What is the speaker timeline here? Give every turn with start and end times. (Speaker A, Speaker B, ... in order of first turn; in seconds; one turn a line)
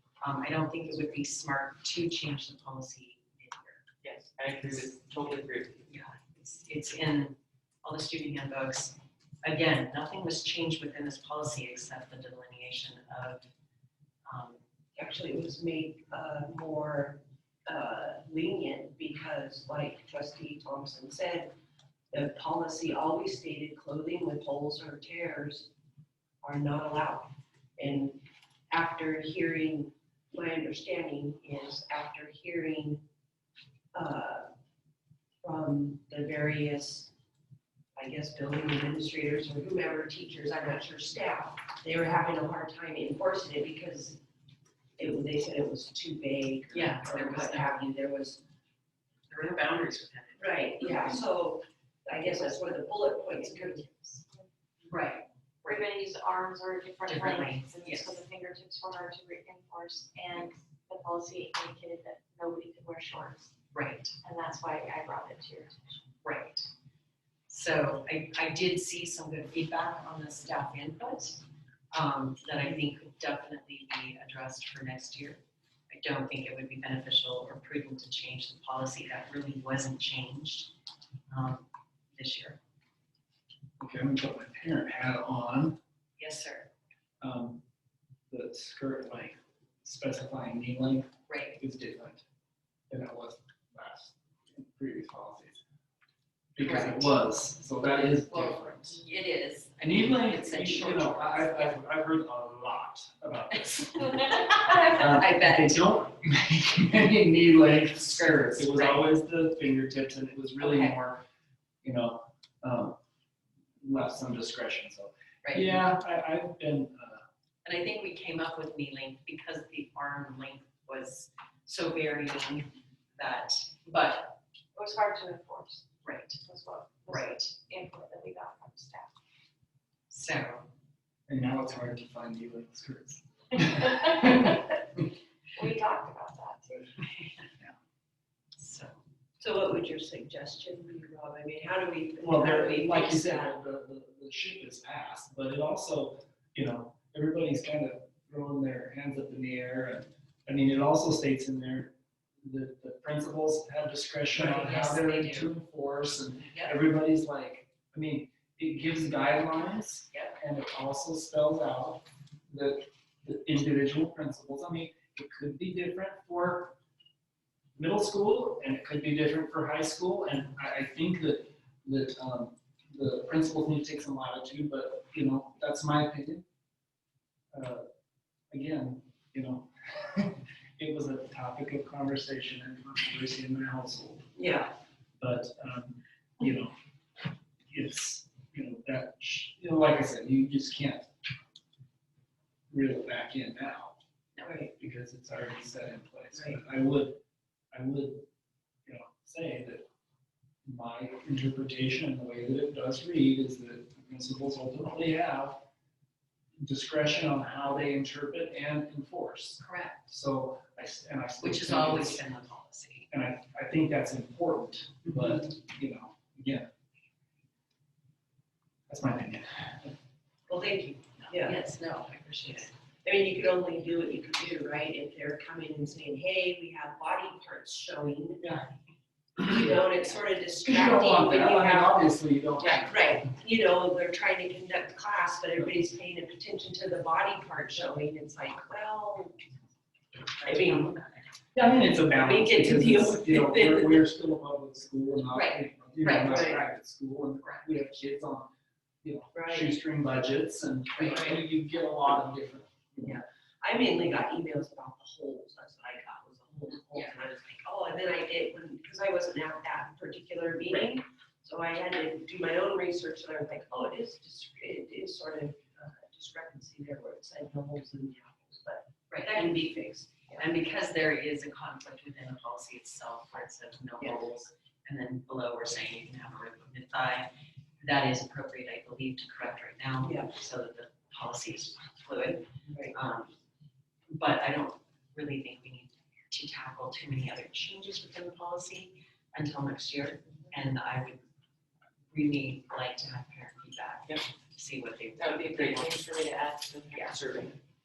Speaker A: 0.2-3.8
Speaker B: 4.0-5.9
Speaker A: 5.9-13.5
Speaker A: 14.3-14.6
Speaker C: 14.9-21.5
Speaker C: 22.1-25.7
Speaker C: 26.4-33.0
Speaker C: 33.9-34.5
Speaker C: 35.4-37.1
Speaker C: 38.0-44.2
Speaker C: 45.0-48.4
Speaker A: 46.7-47.8
Speaker A: 49.3-51.2
Speaker C: 50.4-54.2
Speaker D: 54.0-54.5
Speaker A: 54.9-55.9
Speaker D: 55.6-63.5
Speaker A: 57.1-58.2
Speaker A: 63.7-64.1
Speaker D: 64.2-66.0
Speaker A: 66.2-66.7
Speaker A: 67.5-71.4
Speaker A: 71.9-80.7
Speaker A: 81.3-82.6
Speaker E: 83.8-85.8
Speaker A: 86.2-86.7
Speaker E: 87.2-87.6
Speaker E: 88.3-92.2
Speaker A: 91.3-91.6
Speaker E: 92.9-95.6
Speaker E: 96.5-99.0
Speaker A: 96.6-97.1
Speaker A: 98.2-101.8
Speaker E: 99.8-111.2
Speaker A: 103.6-105.9
Speaker A: 107.8-109.1
Speaker A: 110.6-111.0
Speaker E: 111.8-113.0
Speaker E: 113.8-117.2
Speaker A: 115.4-115.8
Speaker A: 117.6-124.3
Speaker D: 124.7-125.8
Speaker A: 126.0-126.4
Speaker D: 126.4-129.1
Speaker A: 127.0-127.5
Speaker A: 130.1-130.7
Speaker E: 131.3-135.0
Speaker D: 134.0-134.6
Speaker D: 135.5-136.7
Speaker A: 137.0-137.3
Speaker A: 138.6-139.0
Speaker C: 139.4-143.6
Speaker E: 142.2-166.8
Speaker A: 154.3-155.5
Speaker A: 156.5-156.8
Speaker A: 160.1-160.4
Speaker E: 167.8-176.4
Speaker E: 177.5-177.8
Speaker E: 178.5-184.3
Speaker C: 184.3-184.7
Speaker E: 185.2-186.7
Speaker E: 187.7-191.1
Speaker E: 192.7-193.9
Speaker C: 194.4-194.7
Speaker E: 194.8-197.2
Speaker C: 196.3-196.6
Speaker E: 197.7-198.2
Speaker E: 198.8-199.8
Speaker E: 200.7-205.6
Speaker E: 206.6-212.2
Speaker A: 209.6-210.1
Speaker A: 211.4-213.1
Speaker E: 213.1-216.7
Speaker E: 218.9-219.9
Speaker C: 220.5-221.6
Speaker A: 221.2-222.7
Speaker C: 222.5-228.4
Speaker E: 228.4-228.7
Speaker C: 229.4-232.1
Speaker E: 229.4-229.7
Speaker E: 230.6-233.1
Speaker C: 232.6-239.4
Speaker A: 240.4-241.2
Speaker C: 240.4-241.0
Speaker E: 241.5-248.5
Speaker C: 242.1-244.0
Speaker A: 245.3-246.5
Speaker C: 246.2-246.6
Speaker A: 247.4-247.7
Speaker E: 249.0-253.2
Speaker C: 249.3-249.7
Speaker A: 250.9-251.3
Speaker C: 253.0-270.4
Speaker A: 269.1-269.5
Speaker A: 270.4-277.3
Speaker C: 274.0-274.3
Speaker A: 277.8-283.3
Speaker C: 280.0-280.3
Speaker C: 282.6-282.9
Speaker A: 284.1-291.2
Speaker A: 292.1-296.1
Speaker B: 295.2-297.6
Speaker A: 296.9-297.2